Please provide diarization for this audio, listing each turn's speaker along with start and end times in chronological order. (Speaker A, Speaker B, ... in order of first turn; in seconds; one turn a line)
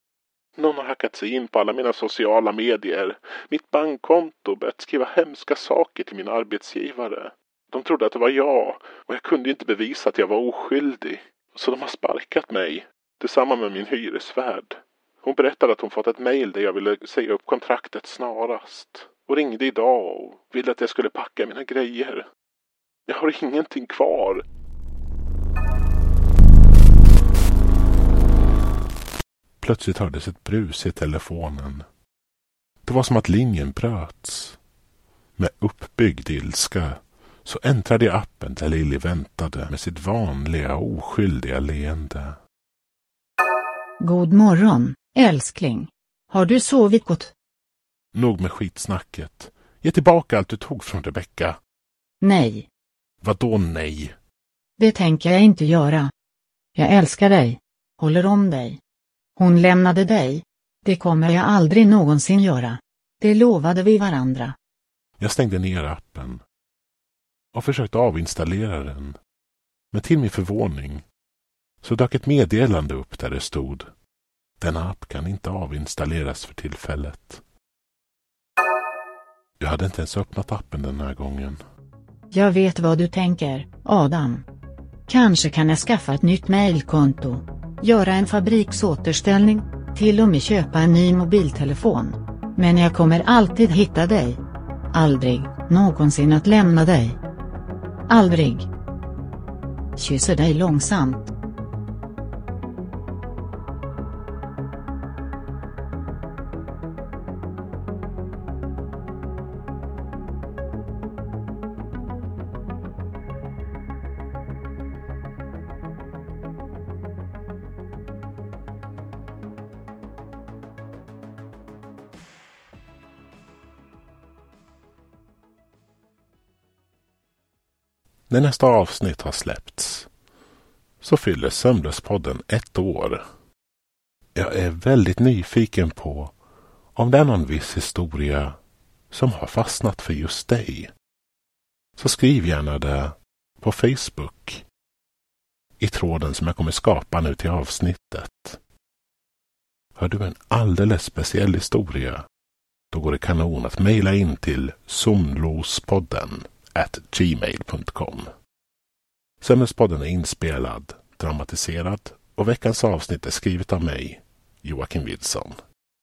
Speaker A: 0.6-22.3
Speaker A: 23.1-24.4
Speaker A: 29.6-31.9
Speaker A: 32.8-34.6
Speaker A: 35.4-42.4
Speaker B: 44.0-47.3
Speaker A: 48.1-51.6
Speaker B: 52.2-52.7
Speaker A: 53.2-54.1
Speaker B: 54.8-56.1
Speaker B: 56.7-58.8
Speaker B: 59.4-64.6
Speaker A: 65.2-66.4
Speaker A: 67.5-69.2
Speaker A: 69.9-71.0
Speaker A: 71.8-73.9
Speaker A: 74.6-77.4
Speaker A: 79.6-81.6
Speaker B: 82.3-84.4
Speaker B: 85.1-94.4
Speaker B: 94.9-97.2
Speaker B: 98.1-98.7
Speaker B: 100.0-101.3
Speaker A: 128.3-130.1
Speaker A: 131.0-133.2
Speaker A: 134.3-136.3
Speaker A: 136.9-138.6
Speaker A: 139.1-140.9
Speaker A: 142.0-144.6
Speaker A: 145.8-148.6
Speaker A: 149.9-152.2
Speaker A: 152.9-158.3
Speaker A: 159.4-165.6